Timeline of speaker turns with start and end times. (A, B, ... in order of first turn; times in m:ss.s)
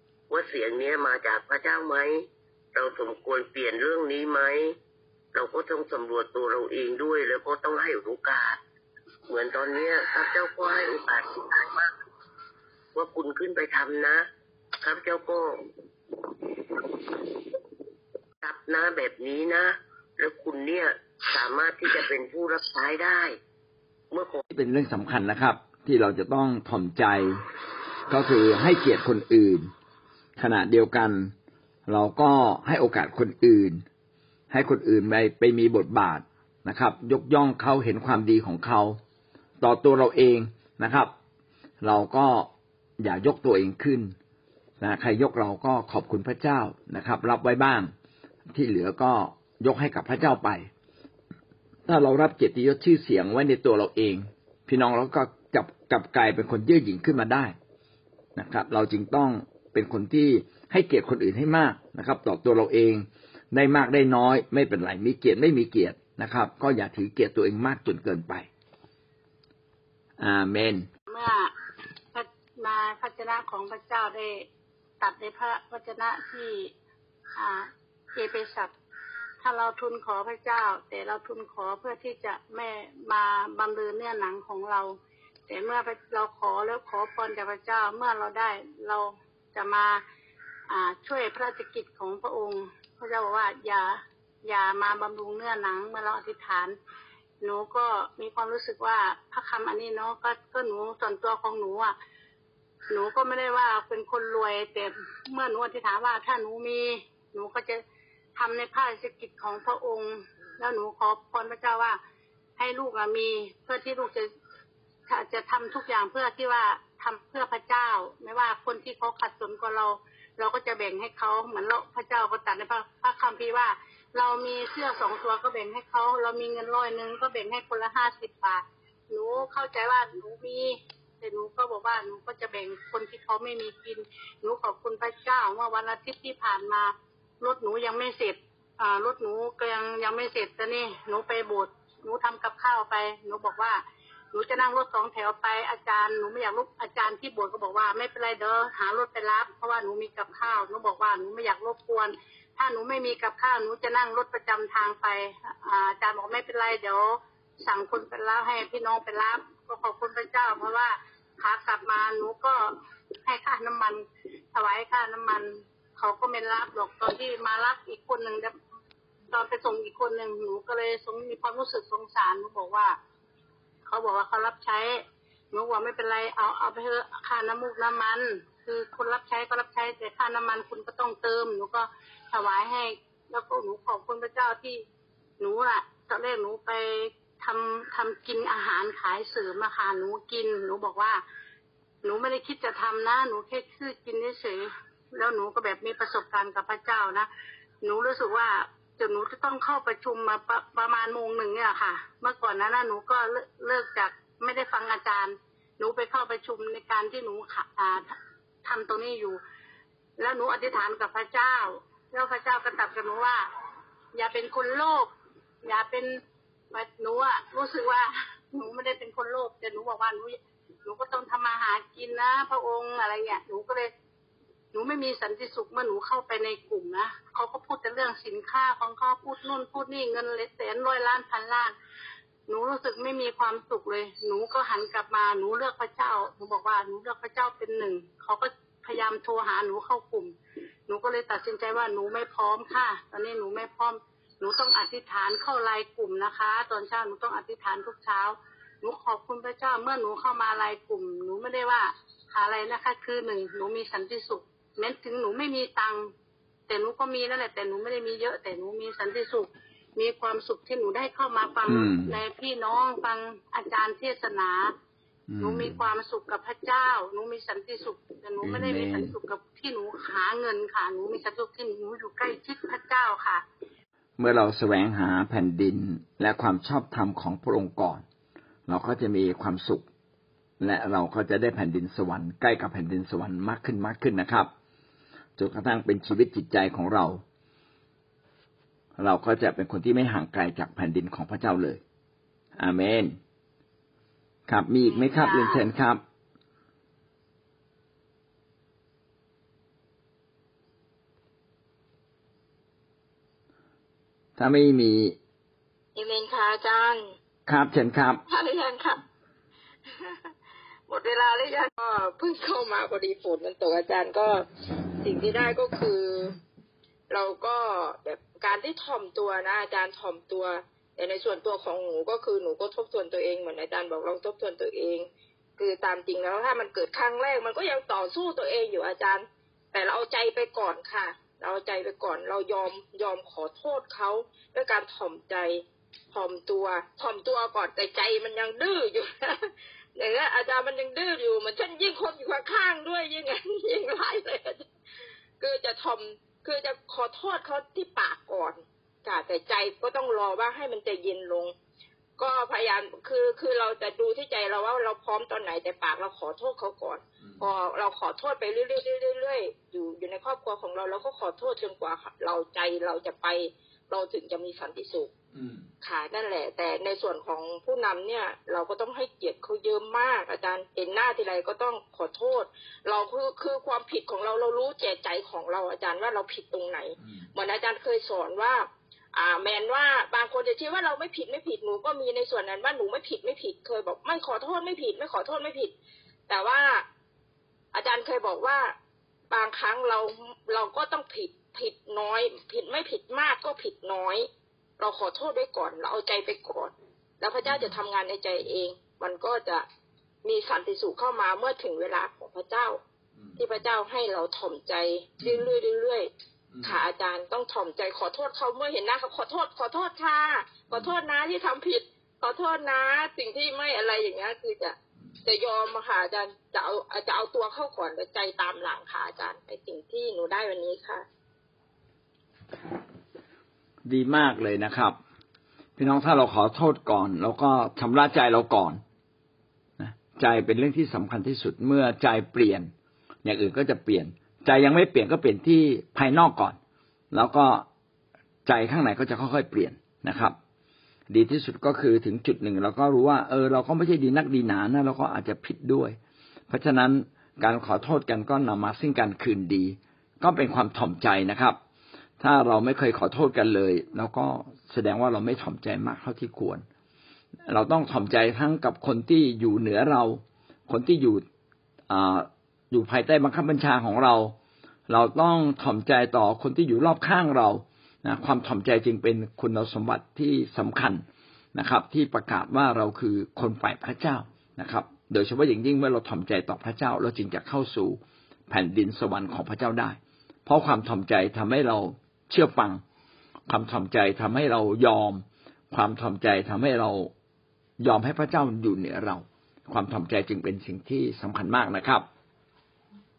0:00.3-0:04.7 A
0:05.3-0:08.6 A
0:09.3-0:11.9 A
0:13.0-0:14.2 A
0:14.8-0:15.6 A
0:16.8-0:17.2 A
0:18.4-0:23.3 A
0:24.1-0:24.4 A
0:24.5-0:27.4 B
0:28.1-0:29.7 B
0:30.4-0:31.3 B
0:31.9-0:33.8 B
0:34.5-0:39.0 B
0:39.6-0:41.1 B
0:41.8-0:44.1 B
0:44.8-0:47.9 B
0:48.5-0:50.7 B
0:51.9-0:57.5 B
0:58.4-1:08.5 B
1:10.2-1:10.9 B
1:11.1-1:11.5 C
1:12.1-1:14.5 C
1:15.0-1:16.7 C
1:17.4-1:18.7 C
1:19.4-1:24.9 C
1:25.5-1:30.0 C
1:30.7-1:36.8 C
1:37.4-1:42.0 C
1:42.9-1:47.8 C
1:48.4-1:52.0 C
1:52.6-1:54.3 C
1:55.1-2:23.8 C
2:24.3-2:42.7 C
2:43.2-2:48.5 C
2:49.3-2:53.0 C
2:53.9-3:04.8 C
3:05.4-3:11.2 C
3:12.0-3:17.3 C
3:17.8-3:29.4 C
3:30.2-3:33.5 C
3:34.2-3:35.1 C
3:35.6-3:36.2 C
3:36.7-3:43.9 C
3:44.7-3:51.7 C
3:52.5-4:00.3 C
4:00.9-4:16.1 C
4:16.7-4:24.7 C
4:21.7-4:22.2 B
4:25.3-4:25.8 B
4:25.4-4:33.4 C
4:28.4-4:29.2 B
4:34.2-4:38.0 B
4:38.7-4:39.8 B
4:40.6-4:44.5 B
4:45.4-4:47.2 B
4:49.0-4:51.8 B
4:52.6-4:53.2 B
4:54.5-4:56.0 B
4:54.9-4:55.6 C
5:04.4-5:05.2 B
5:06.0-5:07.1 D
5:07.5-5:08.2 B
5:08.3-5:09.0 D
5:10.9-5:14.5 D
5:15.0-5:16.4 D
5:17.1-5:25.1 D
5:25.6-5:44.6 D
5:45.4-5:51.6 D
5:52.2-6:05.1 D
6:05.4-6:05.6 B
6:05.8-6:25.7 D
6:26.3-6:26.8 D
6:27.7-6:28.7 D
6:29.3-6:34.3 D
6:34.8-6:39.7 D
6:37.4-6:37.7 B
6:40.2-6:42.8 D
6:43.2-6:43.4 B
6:43.4-6:46.1 D
6:46.5-6:46.8 B
6:46.6-7:01.0 D
7:03.8-7:05.0 B
7:05.8-7:08.8 B
7:09.8-7:12.7 B
7:13.2-7:16.6 B
7:17.1-7:17.7 B
7:18.5-7:20.4 B
7:21.1-7:26.0 B
7:26.5-7:31.6 B
7:32.2-7:36.6 B
7:37.5-7:41.2 B
7:41.9-7:44.4 B
7:44.9-7:51.0 B
7:51.6-8:02.8 B
8:03.5-8:07.1 B
8:07.8-8:12.1 B